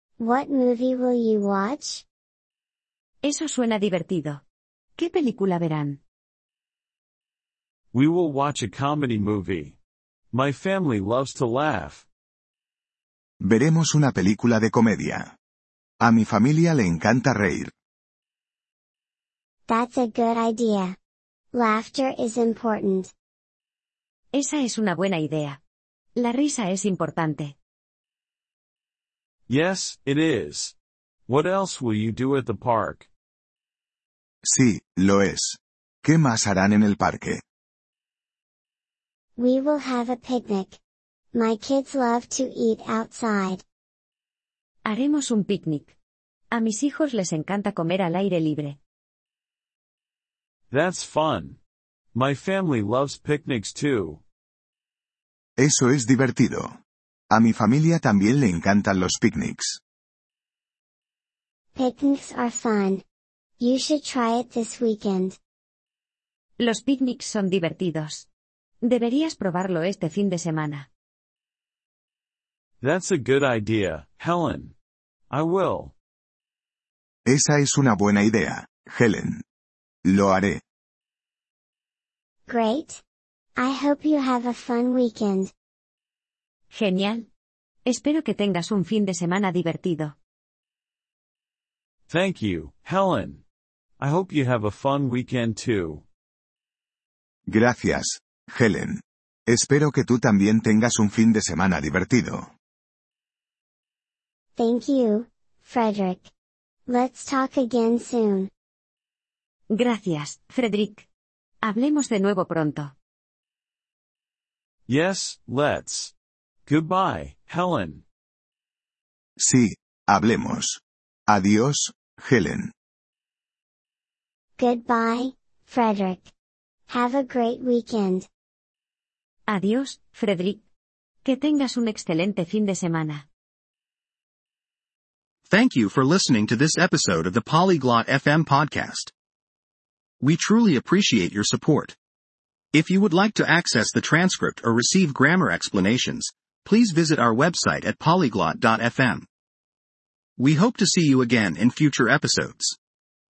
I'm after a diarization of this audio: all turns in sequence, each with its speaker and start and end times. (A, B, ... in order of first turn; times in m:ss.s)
0:00.2-0:02.0 A
0:03.2-0:04.4 B
0:05.0-0:06.0 B
0:07.9-0:09.8 C
0:10.3-0:12.0 C
0:13.4-0:15.3 D
0:16.0-0:17.7 D
0:19.7-0:21.0 A
0:21.5-0:23.1 A
0:24.3-0:25.6 B
0:26.2-0:27.6 B
0:29.5-0:30.8 C
0:31.3-0:33.1 C
0:34.4-0:37.4 D
0:39.4-0:40.8 A
0:41.3-0:43.6 A
0:44.8-0:45.9 B
0:46.5-0:48.8 B
0:50.7-0:51.6 C
0:52.1-0:54.2 C
0:55.6-0:56.7 D
0:57.3-0:59.8 D
1:01.8-1:03.0 A
1:03.6-1:05.4 A
1:06.6-1:08.3 B
1:08.8-1:10.9 B
1:12.8-1:14.8 C
1:15.3-1:15.9 C
1:17.3-1:19.4 D
1:20.0-1:20.6 D
1:22.5-1:23.0 A
1:23.6-1:25.5 A
1:26.7-1:27.3 B
1:27.9-1:30.2 B
1:32.1-1:33.4 C
1:34.0-1:36.0 C
1:37.5-1:42.5 D
1:44.6-1:46.3 A
1:46.9-1:48.5 A
1:49.7-1:51.1 B
1:51.6-1:52.9 B
1:54.9-1:56.1 C
1:56.7-1:58.0 C
1:59.4-2:02.7 D
2:04.6-2:06.3 A
2:06.9-2:08.3 A
2:09.5-2:10.6 B
2:11.2-2:13.2 B
2:15.5-2:19.1 E
2:20.2-2:22.0 E
2:22.7-2:29.3 E
2:30.4-2:32.8 E